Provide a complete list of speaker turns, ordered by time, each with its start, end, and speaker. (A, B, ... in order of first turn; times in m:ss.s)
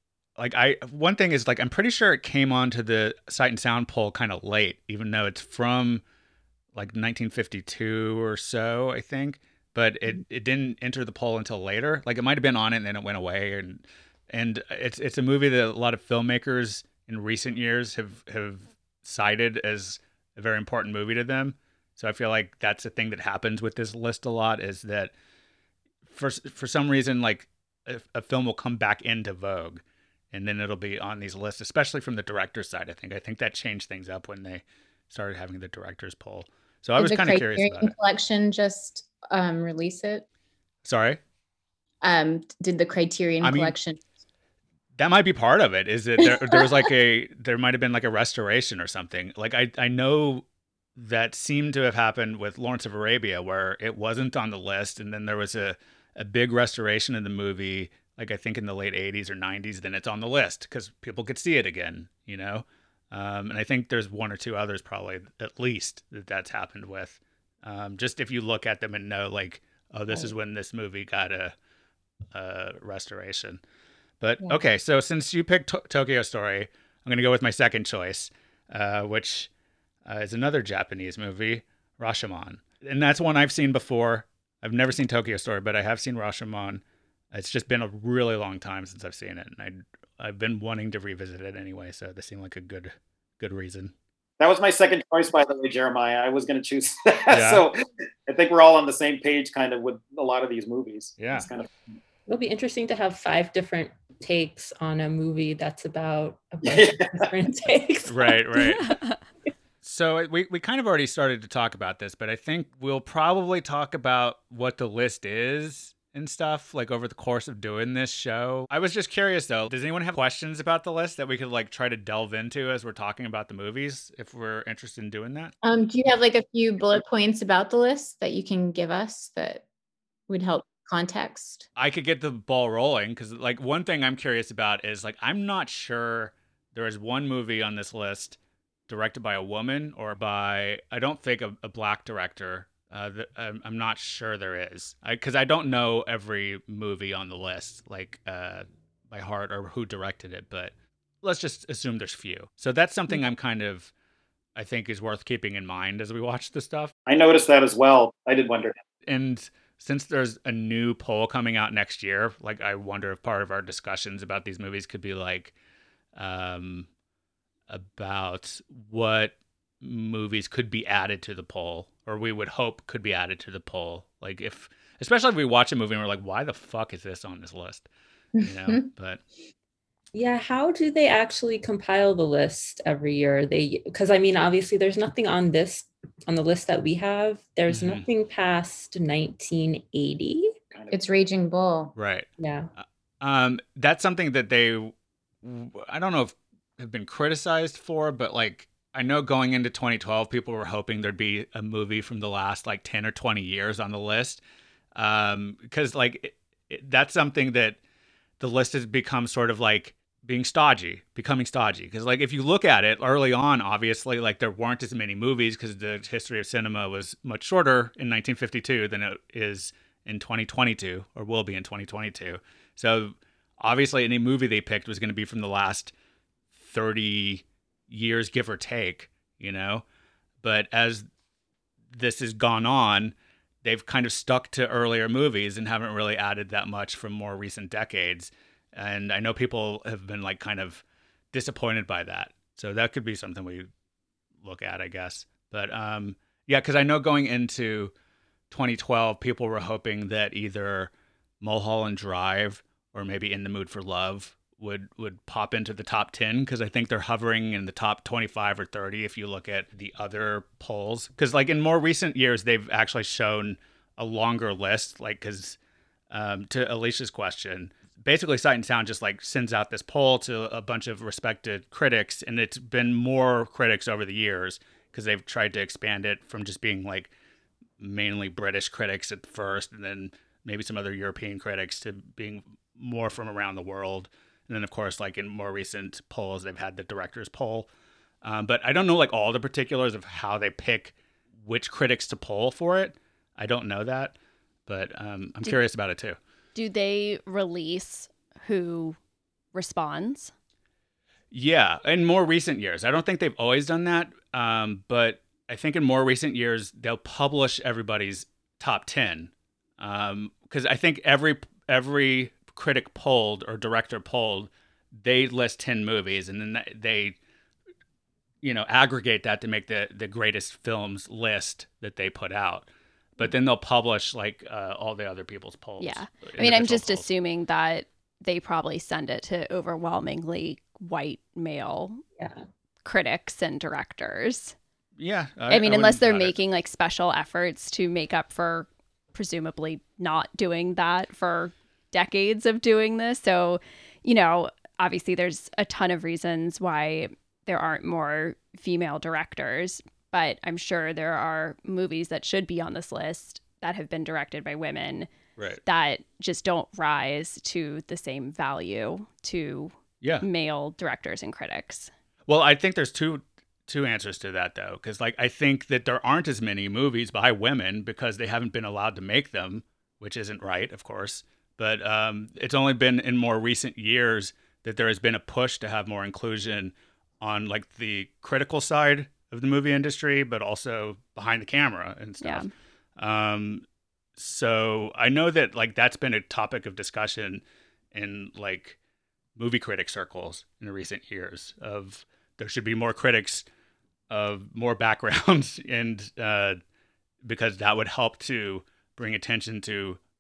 0:00.4-0:06.0 A
0:06.8-0:25.1 A
0:26.1-0:37.9 A
0:37.0-0:40.2 B
0:40.8-0:41.2 A
0:42.0-0:44.0 B
0:43.4-0:43.8 A
0:45.0-0:50.4 A
0:51.0-1:11.6 A
1:12.3-1:13.6 A
1:14.2-1:19.5 A
1:20.0-1:33.9 A
1:34.4-1:41.7 C
1:37.3-1:37.7 A
1:41.2-1:41.5 A
1:42.3-1:48.6 D
1:46.6-1:47.1 C
1:48.1-1:49.0 A
1:49.8-2:05.5 A
2:05.6-2:09.6 B
2:10.3-2:11.7 B
2:11.8-2:33.9 A
2:34.6-2:36.9 A
2:37.1-2:38.8 C
2:39.1-2:45.5 A
2:46.2-2:46.9 A
2:47.7-2:57.9 A
2:58.4-2:58.9 B
2:58.4-2:59.2 A
3:00.1-3:10.6 D
3:07.7-3:08.1 A
3:10.7-3:11.0 C
3:10.9-3:12.0 B
3:12.0-3:24.4 A
3:12.4-3:12.7 D
3:25.0-3:27.8 A
3:28.4-3:45.9 A
3:46.5-3:49.8 A
3:50.4-3:51.1 A
3:51.9-4:03.7 A
4:04.4-4:07.9 A
4:08.5-4:25.6 A
4:26.1-4:37.1 A
4:37.8-4:47.7 A
4:48.2-4:54.2 A
4:54.7-4:56.2 A
4:56.6-4:59.0 E
4:59.5-5:00.3 E
5:01.3-5:17.2 A
5:18.4-5:27.0 A
5:25.8-5:32.0 E
5:32.2-5:32.4 D
5:32.8-5:34.6 E
5:35.0-5:36.3 A
5:35.5-5:55.1 E
5:55.6-6:01.9 E
6:02.3-6:22.4 A
6:22.2-6:22.5 E
6:23.0-6:23.6 A
6:24.2-6:28.8 A
6:29.4-6:33.5 A
6:34.1-6:36.6 A
6:37.2-6:40.0 A